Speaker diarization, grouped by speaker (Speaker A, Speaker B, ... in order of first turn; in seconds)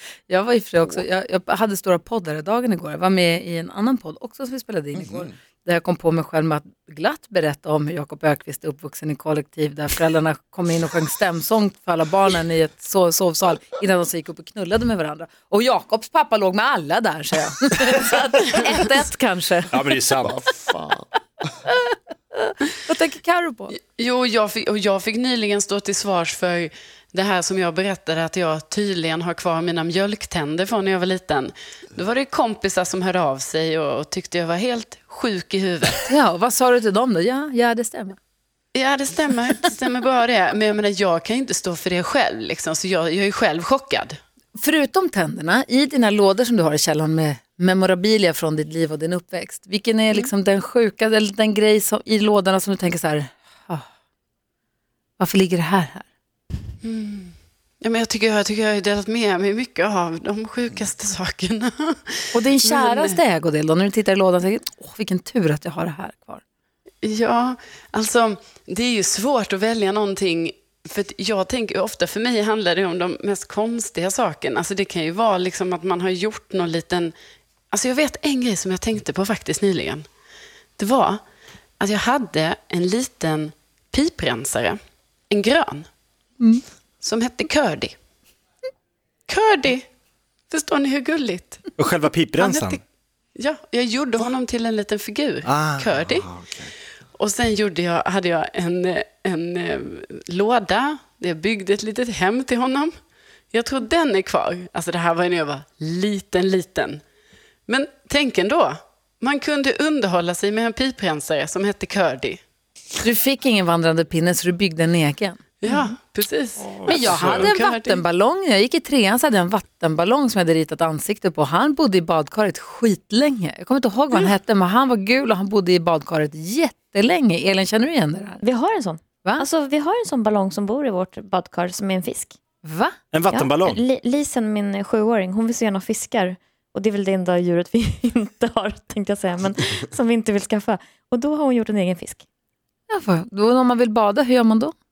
Speaker A: 0.3-19.7, 22.8-23.8, 36.1-38.2, 44.5-53.9, 55.2-56.1, 62.3-66.4, 113.0-115.9, 116.9-128.4, 132.6-132.9, 142.9-144.7
Speaker B: 4.9-5.3, 20.2-21.1, 95.9-96.7
Speaker C: 19.7-20.4, 91.8-92.8, 95.4-96.0, 116.6-117.5, 133.1-133.8
Speaker D: 23.7-36.1, 38.7-44.2, 56.8-63.2, 67.0-77.1, 77.7-80.1, 80.8-81.2, 81.8-84.8, 85.3-85.9, 87.0-87.9, 89.3-89.8, 90.5-91.6, 92.4-92.8, 93.3-96.2, 97.2-102.9, 103.5-107.0, 107.7-112.4, 115.6-118.0
Speaker E: 128.4-132.3, 133.3-142.2